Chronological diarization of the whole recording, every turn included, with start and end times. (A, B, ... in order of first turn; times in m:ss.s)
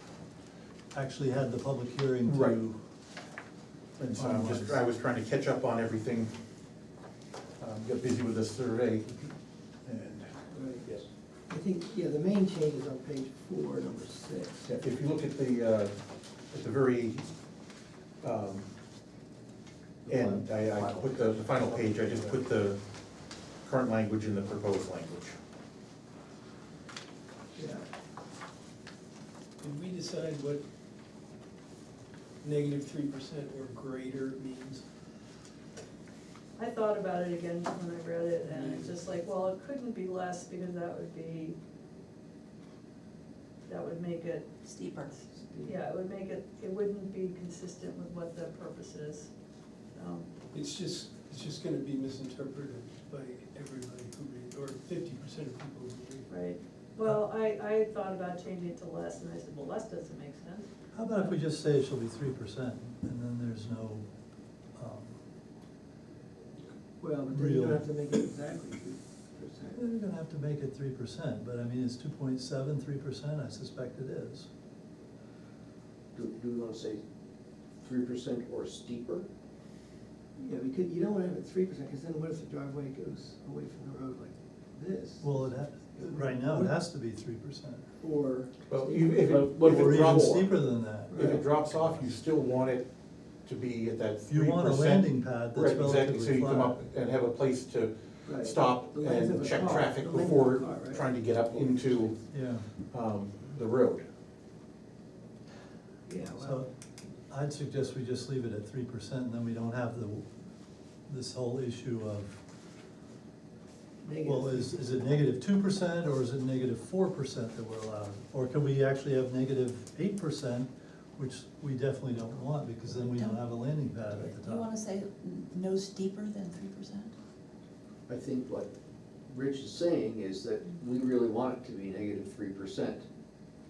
0:00.9-0:02.8 A
0:02.2-0:02.6 B
0:04.0-0:06.3 B
0:04.1-0:04.8 A
0:07.6-0:10.3 B
0:10.5-0:10.8 C
0:11.5-0:14.8 C
0:14.7-0:15.9 B
0:16.5-0:17.3 B
0:18.2-0:18.7 B
0:20.0-0:22.4 D
0:20.1-0:22.8 B
0:23.6-0:25.4 B
0:29.6-0:30.6 E
0:32.4-0:34.8 E
0:36.6-0:41.6 F
0:38.4-0:38.9 E
0:43.7-0:44.6 F
0:44.6-0:45.7 G
0:45.6-0:49.3 F
0:49.9-0:50.3 F
0:50.5-0:56.2 E
0:56.3-1:01.4 F
1:00.9-1:04.1 A
1:04.7-1:05.2 A
1:07.0-1:09.8 C
1:07.3-1:07.8 A
1:09.7-1:14.5 A
1:16.1-1:17.0 D
1:17.8-1:19.3 D
1:20.4-1:26.7 C
1:25.2-1:27.8 A
1:28.0-1:29.3 C
1:28.7-1:32.9 B
1:29.5-1:32.1 A
1:31.1-1:31.4 C
1:33.4-1:42.2 B
1:34.3-1:36.8 A
1:38.2-1:42.1 C
1:42.3-1:42.6 A
1:42.9-1:44.0 B
1:46.1-1:46.6 C
1:46.4-1:46.7 A
1:47.3-1:50.2 A
1:51.1-1:52.4 A
1:54.0-1:55.2 C
1:54.2-2:04.7 A
2:02.9-2:03.4 G
2:04.4-2:07.1 G
2:08.1-2:08.7 D
2:09.3-2:13.0 D